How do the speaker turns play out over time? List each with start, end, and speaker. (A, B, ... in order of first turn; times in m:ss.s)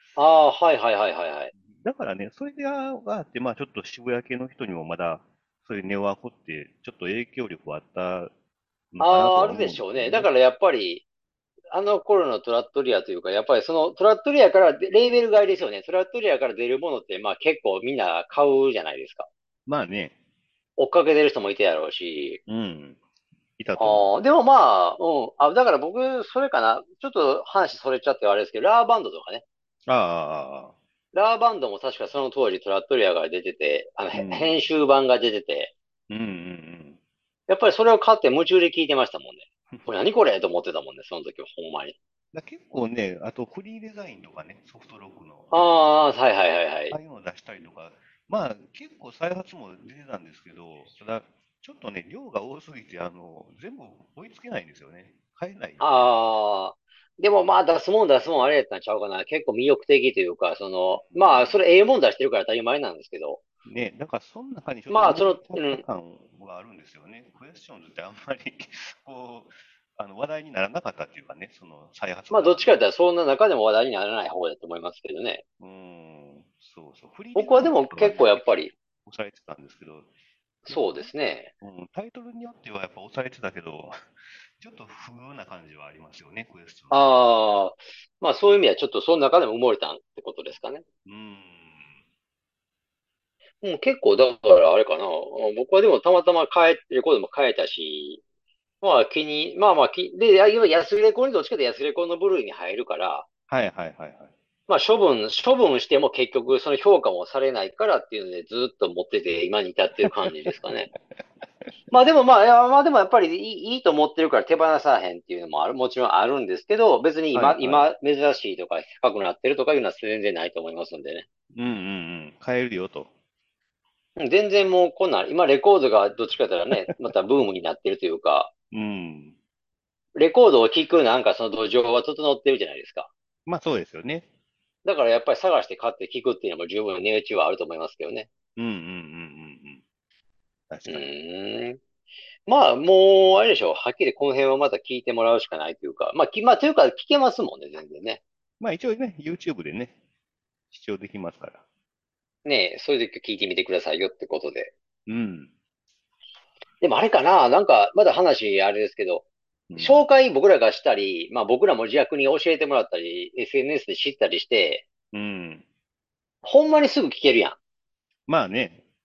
0:00.2-0:01.5 A
0:01.8-0:08.3 B
0:08.9-0:10.3 B
0:09.0-0:11.0 A
0:11.7-0:19.3 A
0:19.6-0:20.1 B
0:20.8-0:22.4 A
0:22.5-0:23.0 B
0:23.6-0:24.1 B
0:23.8-0:29.4 A
0:29.9-0:30.7 B
0:31.1-0:35.7 A
0:34.1-0:34.6 B
0:36.1-0:37.0 B
0:37.5-0:42.0 A
0:42.3-0:45.8 B
0:45.5-0:47.0 A
0:46.9-0:56.0 B
0:55.8-1:03.4 A
1:01.1-1:01.6 B
1:03.6-1:12.8 B
1:04.9-1:05.8 A
1:12.3-1:15.4 A
1:15.6-1:20.1 B
1:17.4-1:18.7 A
1:20.6-1:21.5 A
1:20.7-1:27.0 B
1:26.9-1:30.8 A
1:31.0-1:31.9 B
1:33.6-1:38.2 A
1:38.8-1:43.2 A
1:43.5-1:44.3 B
1:44.7-1:50.9 A
1:50.1-1:50.7 B
1:51.9-2:01.2 A
1:57.3-1:57.9 B
2:01.5-2:03.1 B
2:04.2-2:08.5 A
2:06.8-2:07.1 B
2:08.7-2:09.3 B
2:10.2-2:13.1 A
2:13.4-2:14.2 B
2:14.8-2:18.3 A
2:18.6-2:19.8 B
2:20.7-2:21.1 B
2:20.9-2:21.8 A
2:22.5-2:28.2 A
2:28.6-2:29.9 B
2:30.7-2:31.6 B
2:32.4-2:34.7 A
2:35.1-2:35.5 B
2:36.8-2:44.8 A
2:39.7-2:40.1 B
2:45.1-2:45.6 B
2:46.4-2:47.6 A
2:48.3-2:48.8 B